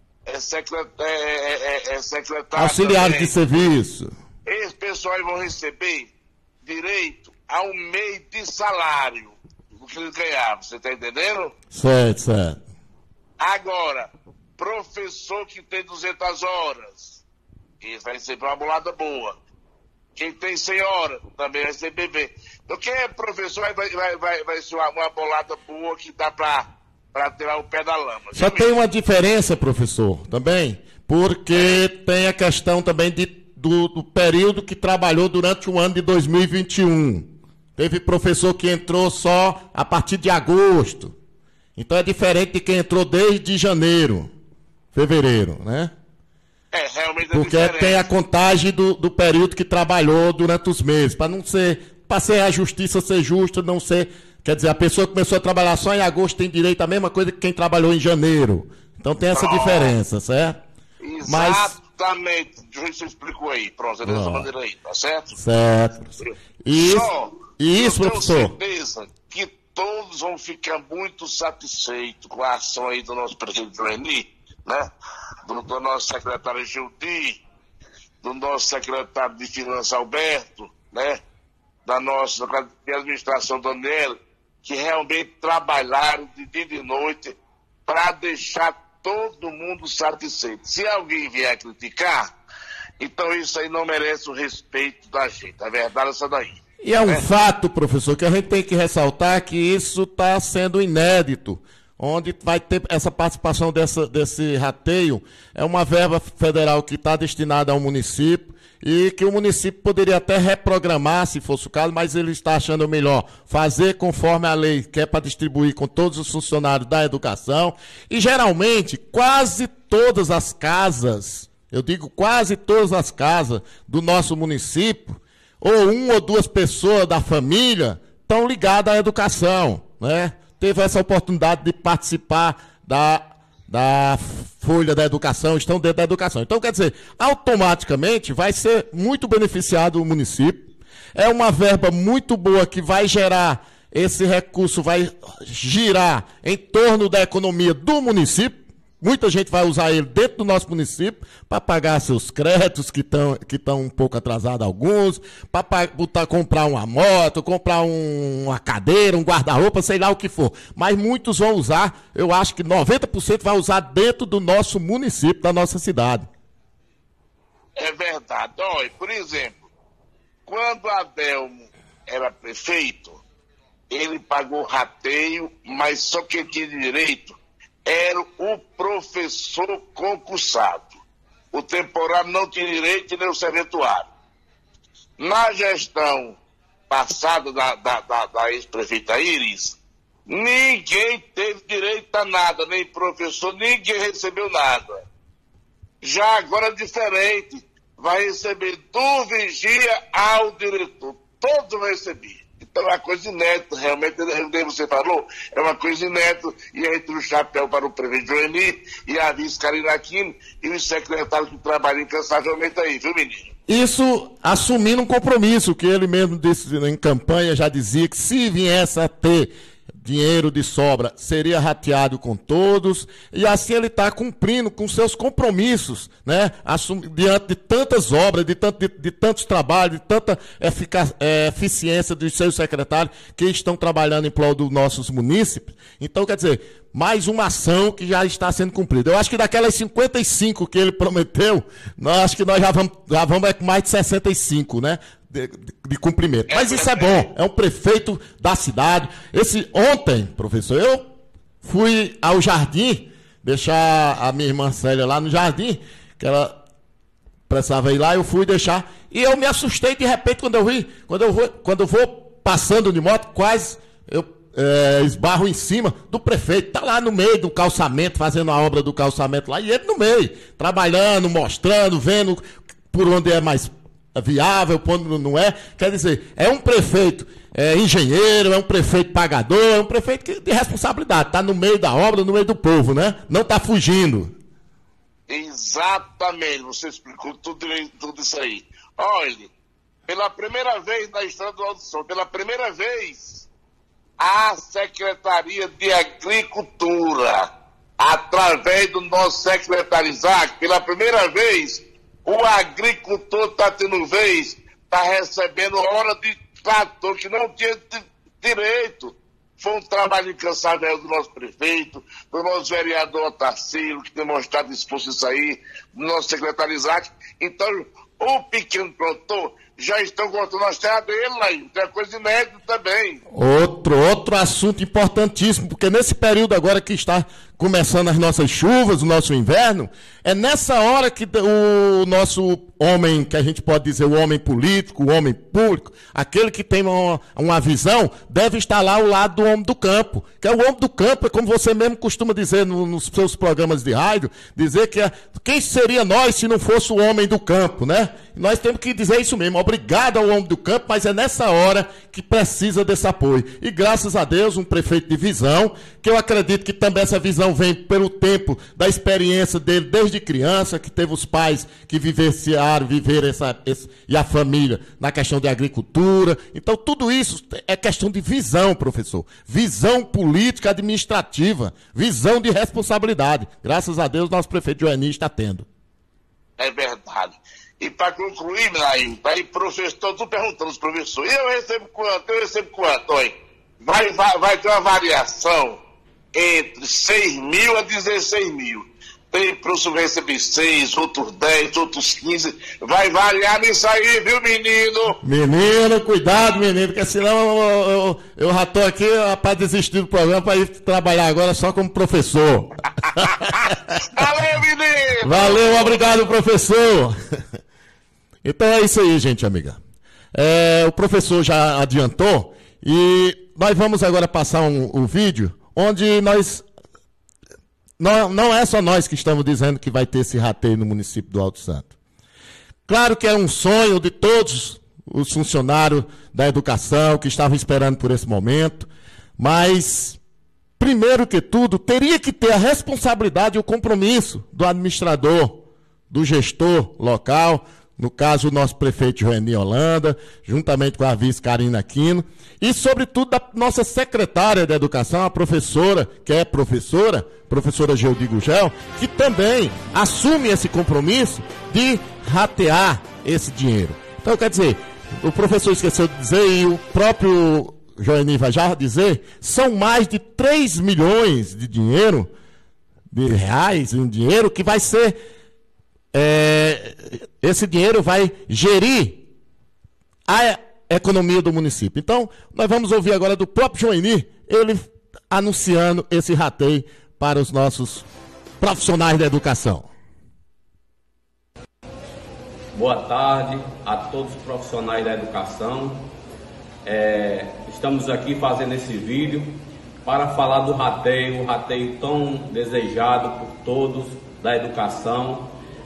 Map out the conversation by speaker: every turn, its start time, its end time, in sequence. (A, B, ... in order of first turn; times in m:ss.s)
0:00.2-0:03.4 A
0:02.6-0:04.1 B
0:04.4-0:06.1 A
0:06.6-0:11.5 A
0:11.7-0:12.6 B
0:13.4-0:17.2 A
0:17.8-0:19.4 A
0:20.2-0:28.7 A
0:28.3-0:41.1 B
0:31.5-0:31.8 A
0:41.8-0:44.3 B
0:44.9-0:45.9 B
0:46.7-0:48.1 A
0:47.3-1:00.6 B
0:59.3-0:59.9 A
1:01.0-1:05.4 A
1:01.2-1:01.8 B
1:04.0-1:04.5 B
1:05.4-1:08.6 B
1:06.2-1:14.9 A
1:15.4-1:17.4 A
1:18.2-1:21.2 A
1:21.9-1:27.4 A
1:27.9-1:32.3 A
1:33.0-1:37.2 A
1:36.8-2:46.3 B
2:47.8-2:49.6 A
2:50.5-2:53.2 A
2:53.9-3:01.0 A
3:01.5-3:04.1 A
3:05.2-3:06.4 A
3:06.9-3:15.0 A
3:16.0-3:33.5 A
3:33.7-4:11.1 B
4:06.5-4:07.2 A
4:11.6-4:16.6 B
4:17.5-4:44.4 B
4:45.3-4:49.5 A
4:50.1-4:53.5 A
4:54.2-5:23.2 A
5:23.3-6:15.7 B
6:16.6-6:25.8 A
6:26.3-6:35.2 A
6:35.2-6:43.7 B
6:44.0-6:46.1 A
6:45.2-6:47.2 B
6:48.4-6:49.8 B
6:50.3-6:56.6 B
6:58.0-7:01.9 B
7:02.9-7:10.2 B
7:10.8-7:42.3 B
7:43.1-7:45.2 B
7:46.1-7:49.2 B
7:50.3-7:58.1 B
7:58.6-7:59.9 B
8:02.7-8:06.1 C
8:06.8-8:15.5 C